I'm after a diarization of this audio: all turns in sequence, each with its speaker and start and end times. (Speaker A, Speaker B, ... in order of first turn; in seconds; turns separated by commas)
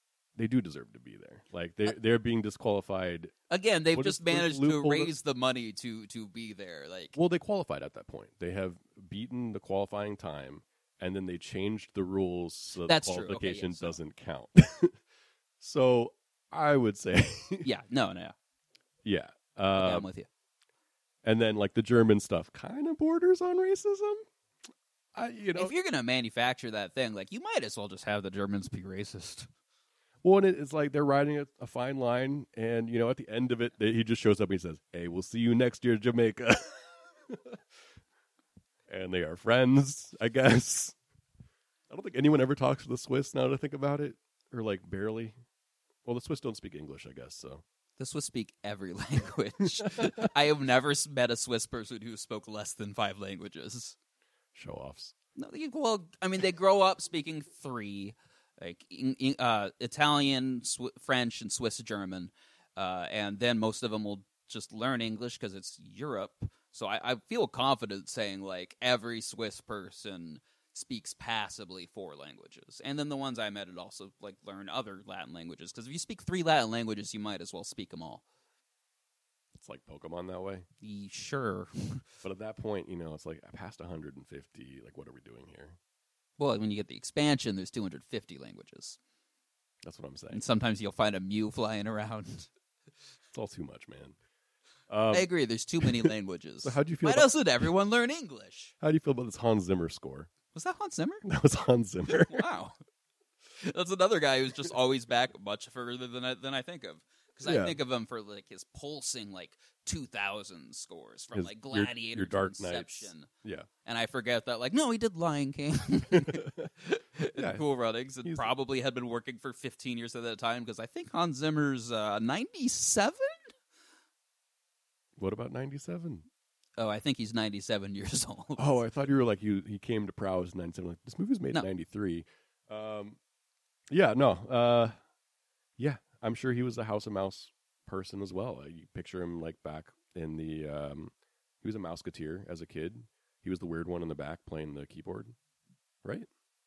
Speaker A: 0.4-3.3, Speaker B: 3.5-7.2, Speaker A: 3.9-5.1, Speaker A: 7.1-15.0, Speaker B: 12.9-14.0, Speaker A: 15.6-17.7, Speaker B: 17.6-18.4, Speaker A: 19.0-20.1, Speaker B: 19.8-20.3, Speaker A: 21.2-24.2, Speaker A: 25.1-25.7, Speaker B: 25.6-29.5, Speaker A: 30.2-37.6, Speaker A: 38.9-41.0, Speaker A: 41.9-45.4, Speaker A: 46.0-47.6, Speaker B: 48.0-54.0, Speaker A: 49.9-50.2, Speaker A: 54.5-55.1, Speaker B: 55.4-78.2, Speaker A: 79.5-80.7, Speaker B: 80.8-82.0, Speaker A: 82.2-85.8, Speaker B: 86.4-89.0, Speaker A: 89.8-90.4, Speaker B: 90.3-92.5, Speaker A: 93.3-94.2, Speaker A: 94.9-95.3, Speaker B: 95.1-98.7, Speaker A: 95.8-96.1, Speaker A: 96.6-97.7, Speaker A: 98.8-100.3, Speaker B: 100.5-101.2, Speaker A: 101.2-102.5, Speaker B: 102.1-102.8, Speaker B: 103.6-113.3, Speaker A: 107.4-107.8, Speaker A: 111.3-113.7, Speaker B: 113.8-123.4, Speaker A: 116.1-116.7, Speaker A: 117.3-117.7, Speaker A: 118.2-118.5, Speaker A: 125.2-126.3, Speaker B: 126.8-128.6, Speaker A: 128.6-133.2, Speaker A: 133.9-134.9, Speaker A: 135.8-145.3